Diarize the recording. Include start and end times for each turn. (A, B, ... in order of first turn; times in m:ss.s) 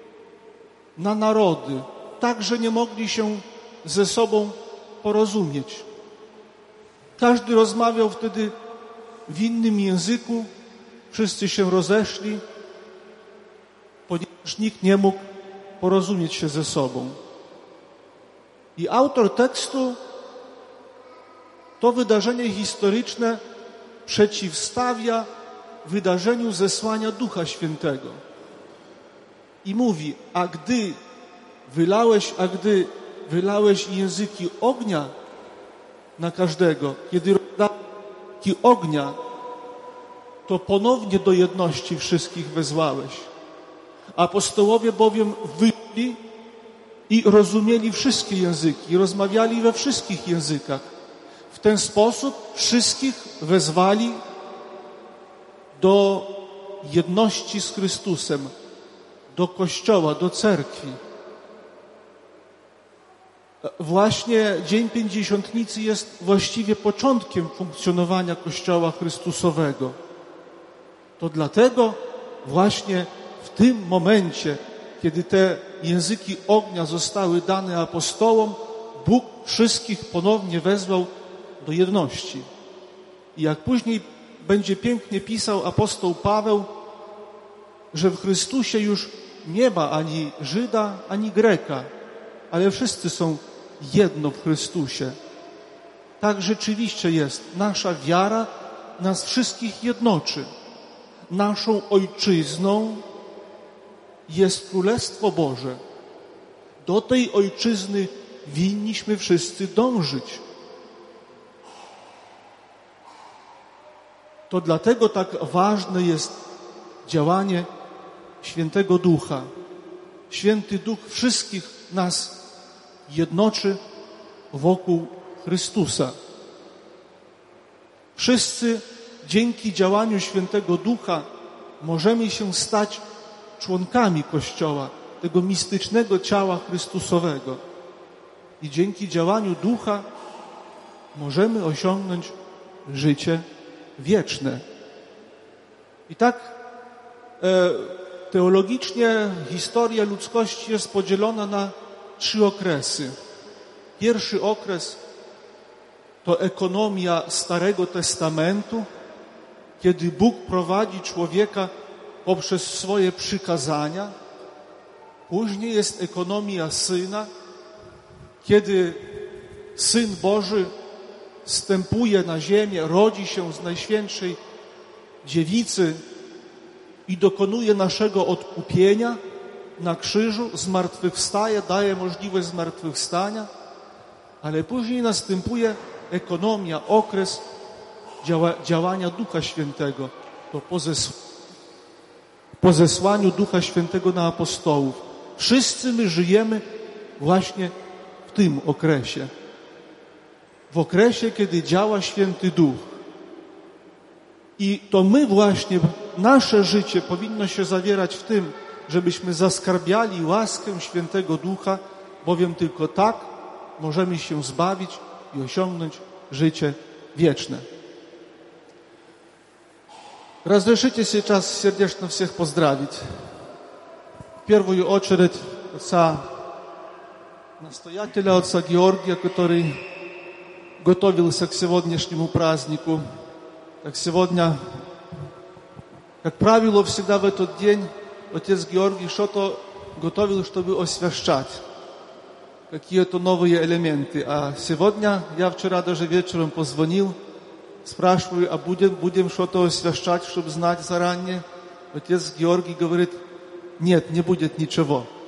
0:01.0-0:05.9 A
0:07.2-0:08.5 A
0:09.3-0:10.5 A
0:11.1-0:12.4 A
0:14.1-0:15.3 A
0:15.8-0:17.2 A
0:18.8-0:20.0 A
0:21.8-0:23.4 A
0:24.1-0:25.3 A
0:25.8-0:28.2 A
0:29.6-0:31.0 A
0:31.7-0:35.1 A
0:36.2-0:37.8 A
0:38.4-0:39.2 A
0:40.5-0:43.3 A
0:44.2-0:46.2 A
0:47.1-0:50.9 A
0:51.5-0:54.2 A
0:55.8-0:58.5 A
0:59.3-1:01.0 A
1:03.6-1:10.0 A
1:11.2-1:22.5 A
1:23.4-1:26.7 A
1:27.9-1:31.9 A
1:32.5-1:35.2 A
1:36.2-1:40.5 A
1:41.3-1:43.0 A
1:44.3-1:45.8 A
1:46.8-1:50.4 A
1:54.5-1:56.4 A
1:57.1-1:57.7 A
1:58.4-1:59.5 A
2:00.3-2:02.4 A
2:03.1-2:03.8 A
2:04.5-2:06.2 A
2:08.2-2:11.3 A
2:11.8-2:13.0 A
2:13.6-2:17.6 A
2:18.6-2:20.1 A
2:21.1-2:23.5 A
2:24.0-2:24.6 A
2:26.1-2:26.6 A
2:27.4-2:33.2 A
2:34.0-2:35.0 A
2:36.2-2:38.9 A
2:39.8-2:41.7 A
2:42.2-2:44.2 A
2:45.3-2:47.3 A
2:48.4-2:49.0 A
2:49.8-2:50.7 A
2:51.4-2:54.4 A
2:55.2-2:56.0 A
2:57.1-2:59.2 A
2:59.8-3:03.5 A
3:04.4-3:07.5 A
3:08.2-3:11.2 A
3:12.6-3:16.6 A
3:17.2-3:17.7 A
3:18.3-3:19.3 A
3:20.7-3:23.0 A
3:24.6-3:37.7 A
3:40.4-3:43.0 A
3:44.4-3:46.3 A
3:47.6-3:49.8 A
3:50.8-3:53.0 A
3:53.8-3:54.6 A
3:56.2-4:01.6 A
4:02.7-4:07.2 A
4:07.8-4:13.2 A
4:13.8-4:15.1 A